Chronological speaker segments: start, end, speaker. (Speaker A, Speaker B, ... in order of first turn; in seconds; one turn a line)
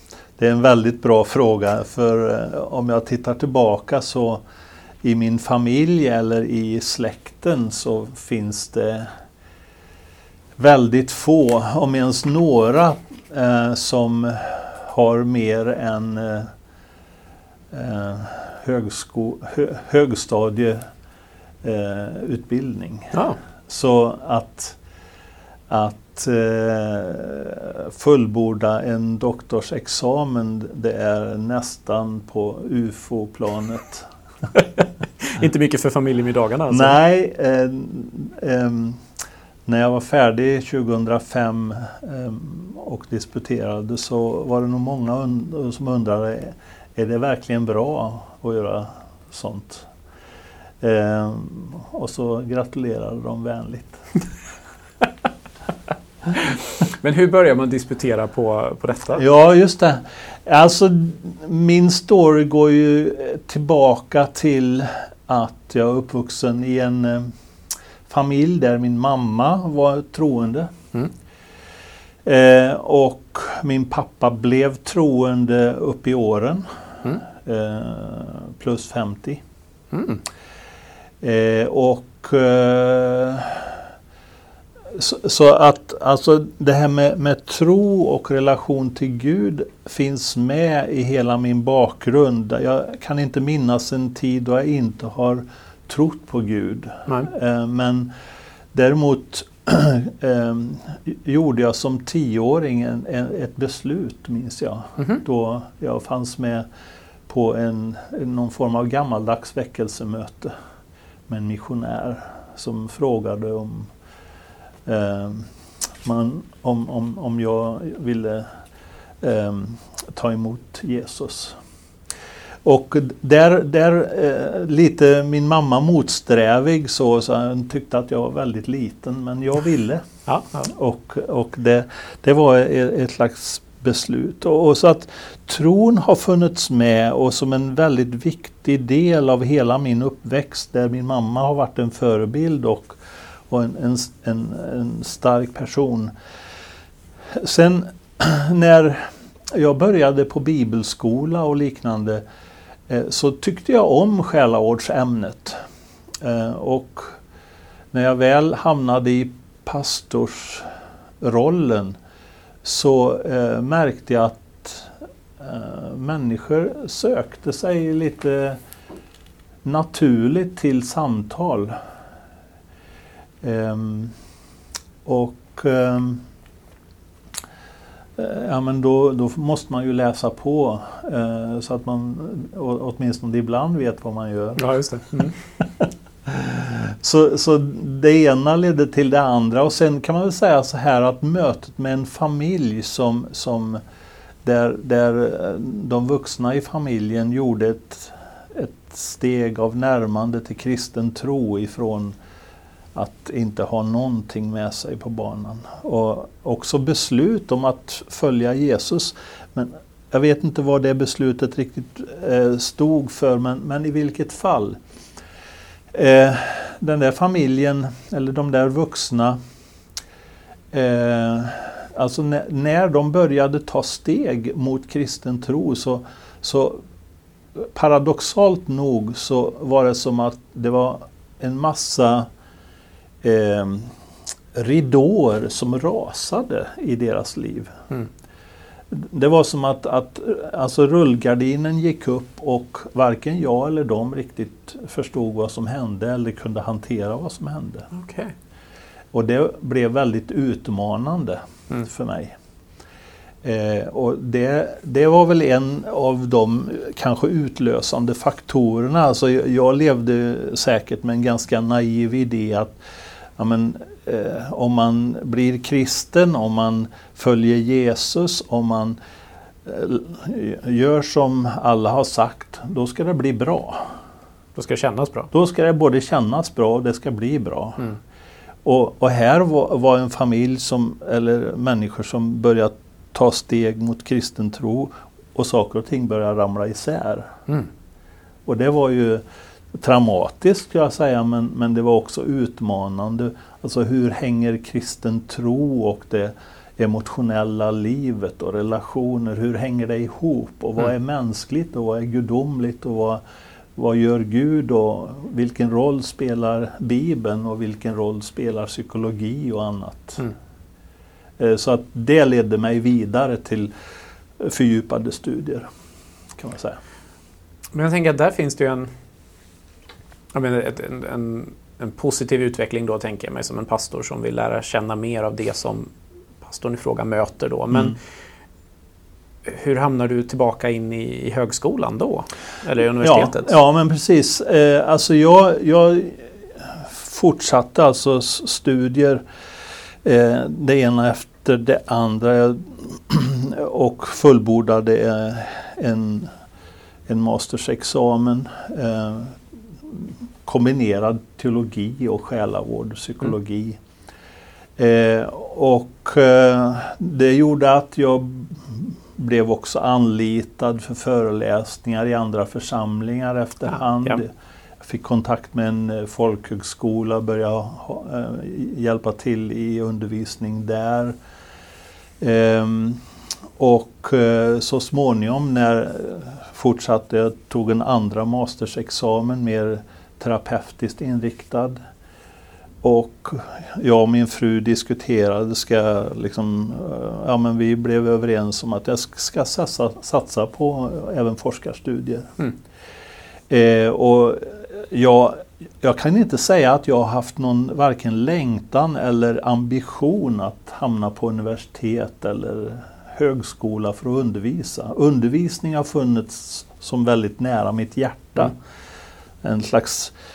Speaker A: 0.4-4.4
Speaker A: 5.0-9.1
Speaker A: 10.6-16.5
Speaker A: 17.7-20.9
Speaker A: 21.6-23.2
Speaker A: 23.7-24.8
Speaker A: 25.7-34.1
Speaker B: 35.2-37.0
Speaker A: 36.7-39.0
Speaker A: 39.7-49.9
Speaker A: 50.8-54.0
Speaker B: 56.4-59.2
Speaker A: 59.1-67.3
Speaker A: 68.1-70.8
Speaker A: 72.2-79.4
Speaker B: 79.9-80.2
Speaker A: 81.2-83.8
Speaker A: 84.9-98.1
Speaker A: 98.7-106.7
Speaker A: 107.3-110.5
Speaker A: 111.3-113.9
Speaker A: 114.9-115.5
Speaker A: 116.0-118.5
Speaker A: 119.2-121.6
Speaker A: 122.7-130.1
Speaker B: 130.3-130.7
Speaker A: 130.6-143.0
Speaker A: 143.5-146.1
Speaker A: 147.4-152.2
Speaker A: 152.9-155.6
Speaker A: 156.2-157.2
Speaker A: 157.9-160.7
Speaker A: 161.2-162.0
Speaker A: 162.6-168.6
Speaker A: 169.7-171.8
Speaker A: 173.4-174.2
Speaker A: 175.1-176.2
Speaker A: 178.2-193.8
Speaker B: 184.6-185.3
Speaker A: 194.4-202.2
Speaker A: 202.9-214.8
Speaker A: 215.9-219.4
Speaker A: 220.7-226.8
Speaker A: 227.6-232.3
Speaker A: 233.2-233.9
Speaker A: 234.5-237.8
Speaker A: 238.9-247.9
Speaker B: 247.9-248.3
Speaker A: 249.1-252.4
Speaker A: 253.4-262.8
Speaker A: 263.4-269.0
Speaker A: 269.7-274.0
Speaker B: 274.6-275.3
Speaker A: 275.3-277.9
Speaker A: 278.6-287.3
Speaker A: 288.5-289.2
Speaker A: 289.7-303.2
Speaker A: 303.8-310.3
Speaker A: 311.4-313.7
Speaker A: 314.4-315.7
Speaker A: 316.4-316.8
Speaker B: 317.7-318.9
Speaker B: 320.3-325.9
Speaker B: 326.4-328.0
Speaker B: 329.4-333.5
Speaker A: 333.0-339.2
Speaker A: 340.0-346.3
Speaker A: 347.1-353.8
Speaker A: 354.8-364.3
Speaker A: 364.8-371.1
Speaker A: 372.2-373.0
Speaker A: 373.6-381.8
Speaker A: 382.8-392.4
Speaker A: 393.5-408.6
Speaker A: 409.4-410.1